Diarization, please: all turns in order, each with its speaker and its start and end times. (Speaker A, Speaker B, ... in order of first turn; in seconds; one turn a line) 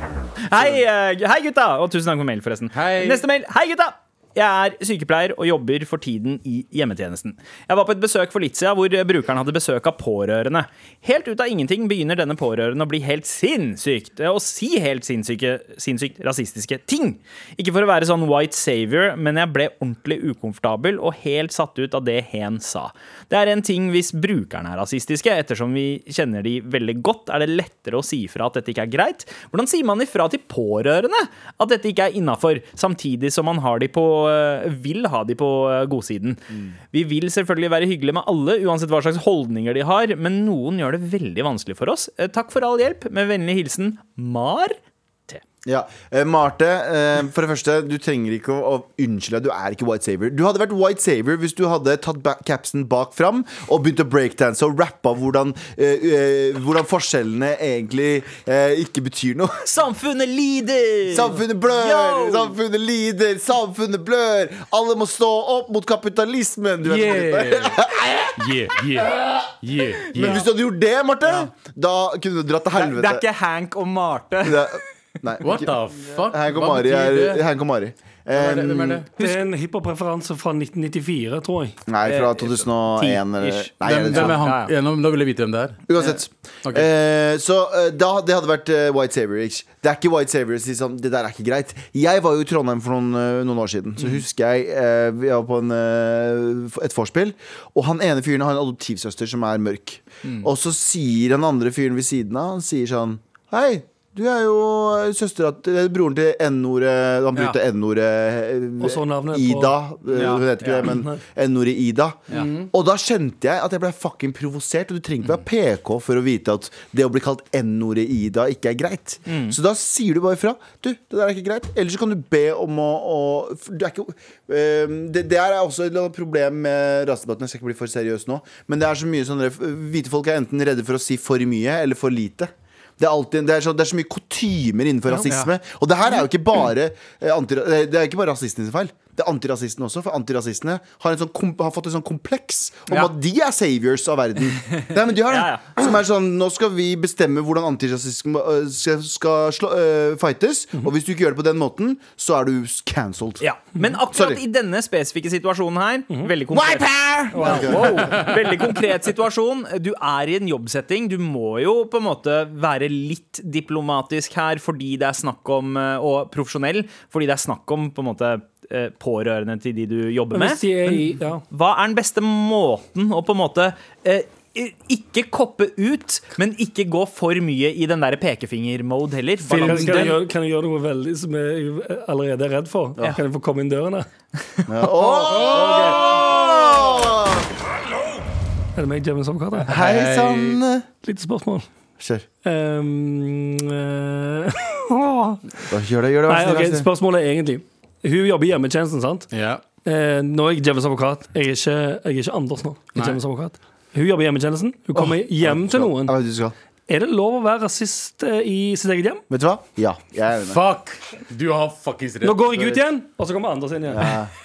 Speaker A: 0.5-44.8
Speaker B: 2.7-3.2
Speaker C: 45.6-59.6
Speaker A: 59.6-62.5
Speaker C: 61.1-68.5
Speaker B: 66.8-70.4
Speaker C: 70.1-73.2
Speaker A: 72.8-74.8
Speaker C: 74.4-79.0
Speaker B: 75.4-77.4
Speaker B: 78.3-79.5
Speaker D: 79.2-81.8
Speaker C: 81.9-84.4
Speaker A: 82.0-84.7
Speaker B: 83.8-85.8
Speaker C: 85.9-153.4
Speaker A: 100.2-100.5
Speaker D: 108.8-109.8
Speaker A: 110.1-110.9
Speaker D: 110.8-111.2
Speaker B: 112.3-112.7
Speaker A: 119.3-119.5
Speaker A: 144.7-145.8
Speaker A: 153.4-180.2
Speaker C: 154.1-154.4
Speaker C: 156.5-158.3
Speaker B: 157.9-158.4
Speaker D: 170.3-171.4
Speaker B: 179.4-180.2
Speaker D: 179.6-184.1
Speaker C: 184.7-187.5
Speaker D: 185.4-186.0
Speaker D: 188.8-189.7
Speaker C: 189.7-190.8
Speaker B: 189.7-190.6
Speaker D: 191.0-191.7
Speaker C: 192.0-192.2
Speaker D: 192.4-195.4
Speaker C: 195.7-196.9
Speaker D: 196.3-199.3
Speaker B: 199.3-199.6
Speaker D: 199.8-206.1
Speaker C: 204.9-206.5
Speaker D: 206.9-209.2
Speaker C: 209.3-210.6
Speaker B: 210.5-212.8
Speaker D: 212.2-214.2
Speaker C: 213.9-214.3